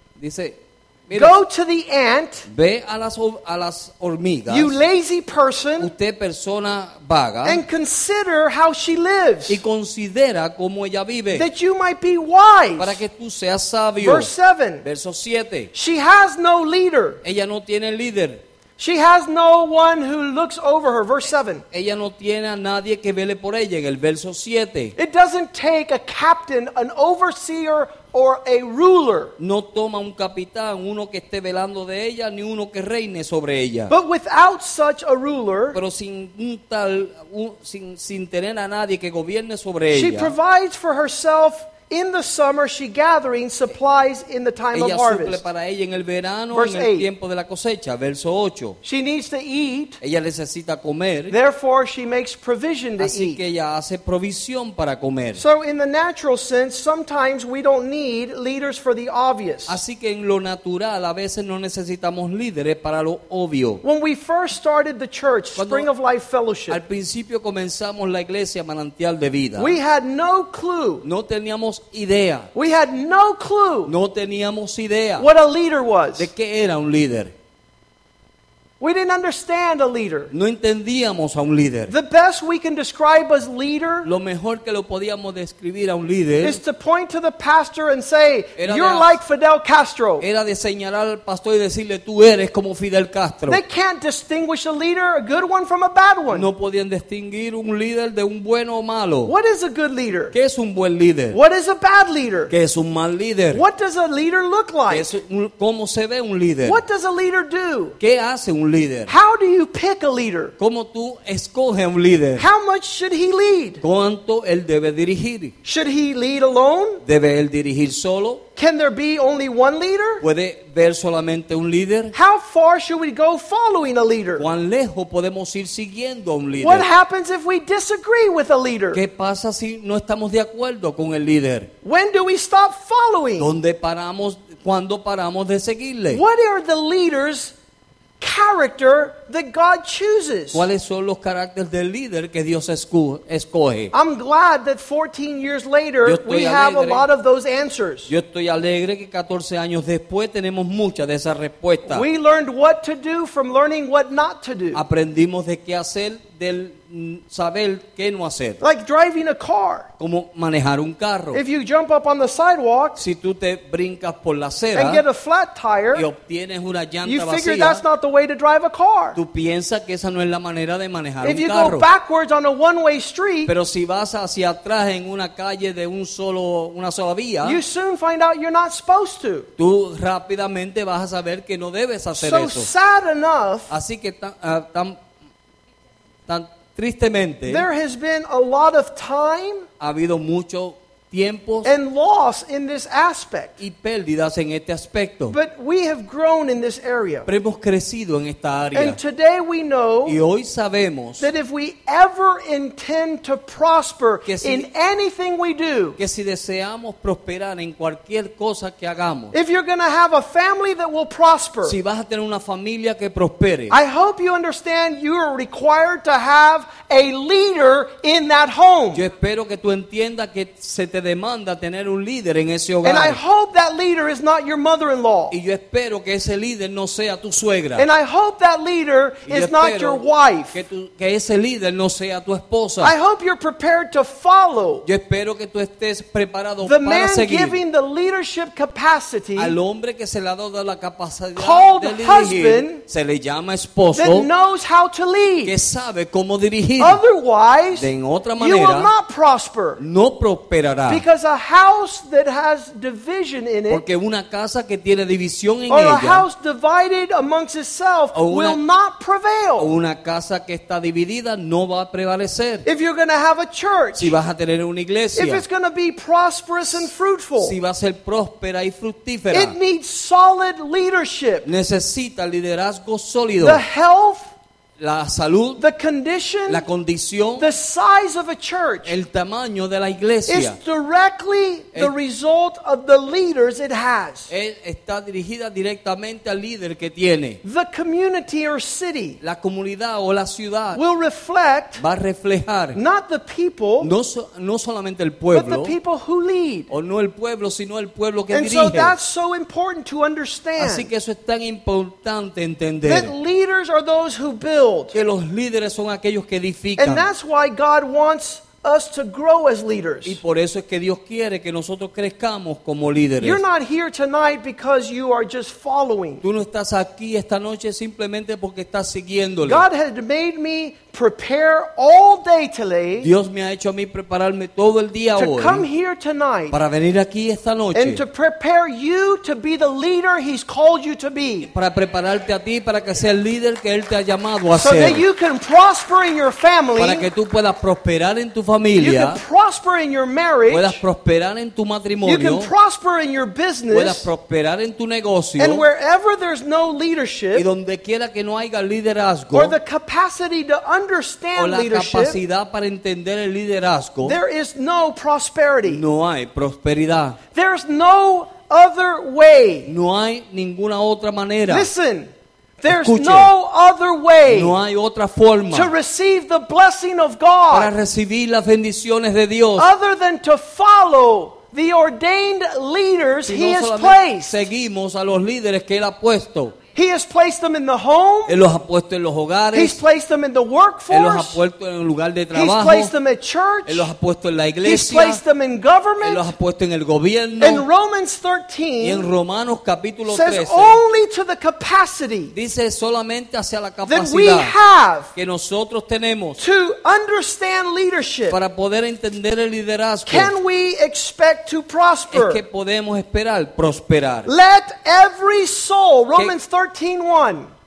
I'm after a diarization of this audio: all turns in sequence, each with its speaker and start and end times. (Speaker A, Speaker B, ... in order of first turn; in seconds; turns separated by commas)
Speaker A: 0.2-1.4, Speaker B: 1.1-2.5, Speaker A: 2.5-4.8, Speaker B: 4.5-5.9, Speaker A: 5.8-7.6, Speaker B: 7.4-9.6, Speaker A: 9.5-11.5, Speaker B: 11.3-13.0, Speaker A: 12.8-14.3, Speaker B: 14.0-14.8, Speaker A: 14.8-15.7, Speaker B: 15.7-17.2, Speaker A: 17.2-18.4, Speaker B: 18.8-21.6, Speaker A: 21.7-24.9, Speaker B: 24.9-29.3, Speaker A: 29.4-33.9, Speaker B: 33.9-35.8, Speaker A: 35.7-40.4, Speaker B: 39.9-45.4, Speaker A: 44.7-48.8, Speaker B: 46.5-47.1, Speaker B: 48.8-50.0, Speaker A: 50.0-51.4, Speaker B: 51.3-53.4, Speaker A: 53.0-55.4, Speaker B: 55.4-59.8, Speaker A: 59.7-63.8, Speaker B: 63.8-66.8, Speaker A: 65.5-65.9, Speaker A: 66.7-69.7, Speaker B: 69.6-71.0, Speaker A: 71.0-72.5, Speaker B: 72.5-73.9, Speaker A: 73.8-75.3, Speaker B: 75.2-76.3, Speaker A: 76.2-77.3, Speaker B: 78.8-80.3, Speaker A: 80.3-81.9, Speaker B: 81.9-84.1, Speaker A: 84.0-86.6, Speaker B: 86.4-90.2, Speaker A: 88.6-89.2, Speaker A: 90.2-93.6, Speaker B: 93.5-96.5, Speaker A: 96.3-99.3, Speaker B: 99.2-100.3, Speaker A: 100.3-101.4, Speaker B: 101.3-102.5, Speaker A: 102.5-103.6, Speaker B: 103.5-105.1, Speaker A: 104.9-106.8, Speaker B: 106.6-108.0, Speaker A: 108.0-109.1, Speaker B: 109.1-110.5, Speaker A: 110.6-112.5, Speaker B: 112.4-113.8, Speaker A: 113.8-115.5, Speaker B: 115.6-117.0, Speaker A: 117.0-118.4, Speaker B: 118.5-120.2, Speaker A: 120.2-122.1, Speaker B: 122.1-124.5, Speaker A: 124.4-126.9, Speaker B: 126.6-129.0, Speaker A: 128.9-131.7, Speaker B: 131.8-133.5, Speaker A: 133.4-136.2, Speaker B: 136.1-137.5, Speaker B: 138.2-140.7, Speaker A: 140.5-143.9, Speaker B: 143.9-148.1, Speaker A: 146.0-147.1, Speaker A: 148.1-152.0, Speaker B: 151.8-154.8, Speaker A: 154.7-158.6, Speaker B: 158.6-159.9, Speaker A: 160.0-161.4, Speaker B: 161.3-163.0, Speaker A: 162.9-165.0, Speaker B: 164.7-166.1, Speaker A: 165.9-167.8, Speaker B: 167.0-169.2, Speaker A: 169.1-171.9, Speaker B: 171.2-173.5, Speaker A: 173.4-177.6, Speaker B: 177.4-179.5, Speaker A: 179.6-182.7, Speaker B: 182.2-183.7, Speaker A: 183.7-185.0, Speaker A: 186.3-187.7, Speaker B: 187.5-189.7, Speaker A: 189.8-191.7, Speaker B: 191.6-193.6, Speaker A: 193.6-195.4, Speaker B: 195.3-197.3, Speaker A: 197.2-199.0, Speaker B: 198.7-200.2, Speaker A: 200.0-201.3, Speaker B: 201.2-206.0, Speaker A: 204.2-204.7, Speaker A: 206.0-209.3, Speaker B: 209.3-211.8, Speaker A: 211.6-213.8, Speaker B: 213.7-219.0, Speaker A: 218.9-223.2, Speaker B: 222.8-225.3, Speaker A: 225.3-227.9, Speaker B: 227.8-230.6, Speaker A: 229.2-232.9, Speaker B: 232.8-234.8, Speaker A: 234.8-237.6, Speaker B: 236.6-239.6, Speaker A: 239.3-244.3, Speaker B: 241.3-242.8, Speaker B: 243.9-245.5, Speaker A: 245.4-247.0, Speaker B: 246.8-249.8, Speaker A: 247.7-248.9, Speaker A: 249.8-251.0, Speaker B: 250.9-253.8, Speaker A: 253.7-256.3, Speaker B: 255.7-259.7, Speaker A: 258.1-258.6, Speaker A: 259.6-262.6, Speaker B: 262.6-264.1, Speaker A: 263.9-265.4, Speaker B: 265.1-267.5, Speaker A: 267.4-269.5, Speaker B: 269.3-271.5, Speaker A: 271.4-273.6, Speaker B: 273.4-274.3, Speaker A: 274.8-275.6, Speaker B: 275.6-276.6, Speaker A: 276.5-277.5, Speaker B: 277.4-278.9, Speaker A: 278.8-280.6, Speaker B: 280.3-284.3, Speaker A: 284.3-287.4, Speaker B: 287.4-289.2, Speaker A: 289.2-290.8, Speaker B: 290.7-291.8, Speaker A: 291.8-292.8, Speaker B: 292.7-293.9, Speaker A: 293.8-295.7, Speaker B: 295.3-296.7, Speaker A: 296.7-299.0, Speaker B: 298.3-300.9, Speaker A: 300.6-303.1, Speaker B: 302.8-305.0, Speaker A: 304.9-307.1, Speaker B: 306.8-310.2, Speaker A: 310.0-313.4, Speaker B: 313.2-316.2, Speaker A: 316.2-319.6, Speaker B: 319.4-323.1, Speaker A: 323.0-325.6, Speaker B: 325.1-326.6, Speaker A: 326.5-328.0, Speaker B: 327.7-331.5, Speaker A: 331.4-335.0, Speaker B: 334.6-337.1, Speaker A: 336.8-339.2, Speaker B: 338.7-340.8, Speaker A: 340.5-342.5, Speaker B: 342.0-344.1, Speaker A: 343.7-345.6, Speaker B: 345.4-347.4, Speaker A: 347.3-349.6, Speaker B: 349.3-352.2, Speaker A: 351.3-354.2, Speaker B: 354.0-355.8, Speaker A: 355.6-357.2, Speaker B: 357.3-359.7, Speaker A: 359.6-361.7, Speaker B: 361.5-364.6, Speaker A: 362.6-363.3, Speaker A: 364.3-365.7, Speaker B: 365.5-367.7, Speaker A: 367.5-369.7, Speaker B: 369.6-374.4, Speaker A: 373.2-376.6, Speaker B: 376.7-378.4, Speaker A: 378.3-379.8, Speaker B: 379.5-381.4, Speaker A: 380.9-382.9, Speaker B: 382.3-383.9, Speaker A: 383.6-385.2, Speaker B: 384.6-386.3, Speaker A: 386.0-387.7, Speaker B: 387.4-389.1, Speaker A: 388.8-390.8, Speaker B: 390.1-392.3, Speaker A: 392.3-394.6, Speaker B: 393.8-395.1, Speaker A: 395.1-396.4, Speaker B: 396.4-398.4, Speaker A: 398.3-400.4, Speaker B: 400.1-402.4, Speaker A: 402.1-404.3, Speaker B: 404.2-407.5